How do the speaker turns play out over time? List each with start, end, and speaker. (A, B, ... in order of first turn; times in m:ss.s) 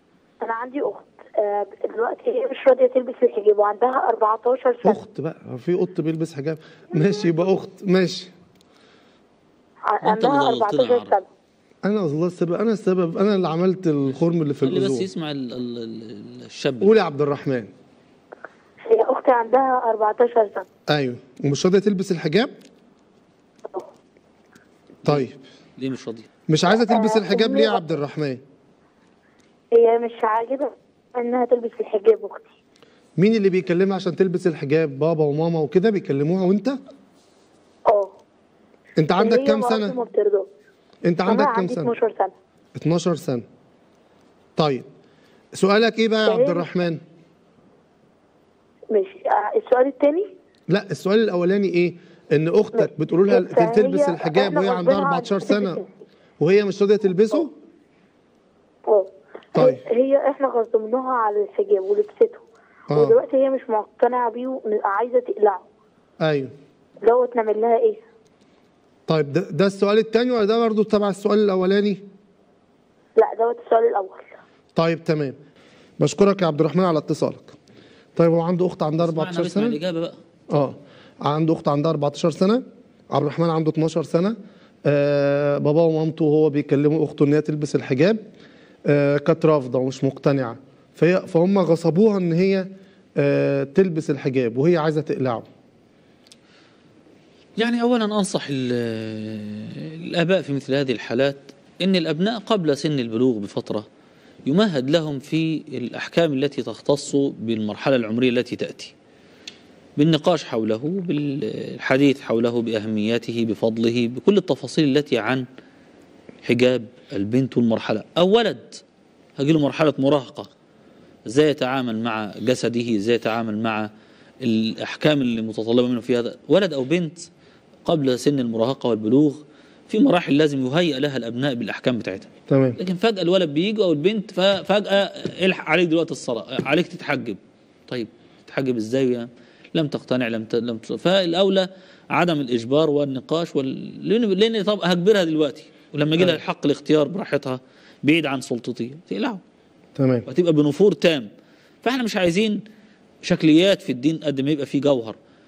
0:00.4-0:05.0 A
0:04.8-0:08.3 B
0:09.9-0:11.3 A
0:10.0-0:11.1 C
0:11.8-0:15.1 B
0:14.6-0:16.9 C
0:16.8-0:17.7 B
0:18.8-0:20.7 A
0:20.9-0:22.5 B
0:25.0-0:25.4 B
0:25.8-0:26.3 C
0:26.5-0:28.4 B
0:26.7-0:27.8 A
0:29.7-0:32.5 A
0:33.2-0:36.8 B
0:37.9-0:38.2 A
0:39.0-0:40.0 B
0:39.2-0:40.5 A
0:41.0-0:41.9 B
0:41.3-0:42.3 A
0:42.8-0:43.4 B
0:44.6-0:44.9 B
0:45.6-0:47.0 B
0:46.3-0:46.7 A
0:48.9-0:50.3 A
0:50.7-0:55.8 B
0:52.7-0:55.8 A
0:56.4-0:57.5 B
0:58.9-1:05.6 A
0:59.5-0:59.8 B
1:02.9-1:03.2 B
1:06.2-1:06.5 B
1:07.0-1:08.0 A
1:09.1-1:12.0 B
1:13.2-1:14.3 A
1:14.7-1:15.4 B
1:16.0-1:17.6 B
1:18.2-1:19.8 B
1:19.0-1:20.2 C
1:20.5-1:28.2 B
1:28.9-1:35.5 B
1:37.6-1:43.8 C
1:44.5-1:48.9 C
1:50.0-1:55.4 C
1:56.4-1:58.8 C
1:59.4-2:00.5 C
2:01.3-2:03.9 C
2:04.4-2:07.3 C
2:07.8-2:29.4 C
2:12.5-2:12.8 B
2:30.0-2:30.3 B
2:30.3-2:31.3 C
2:31.8-2:32.6 C
2:33.2-2:35.2 C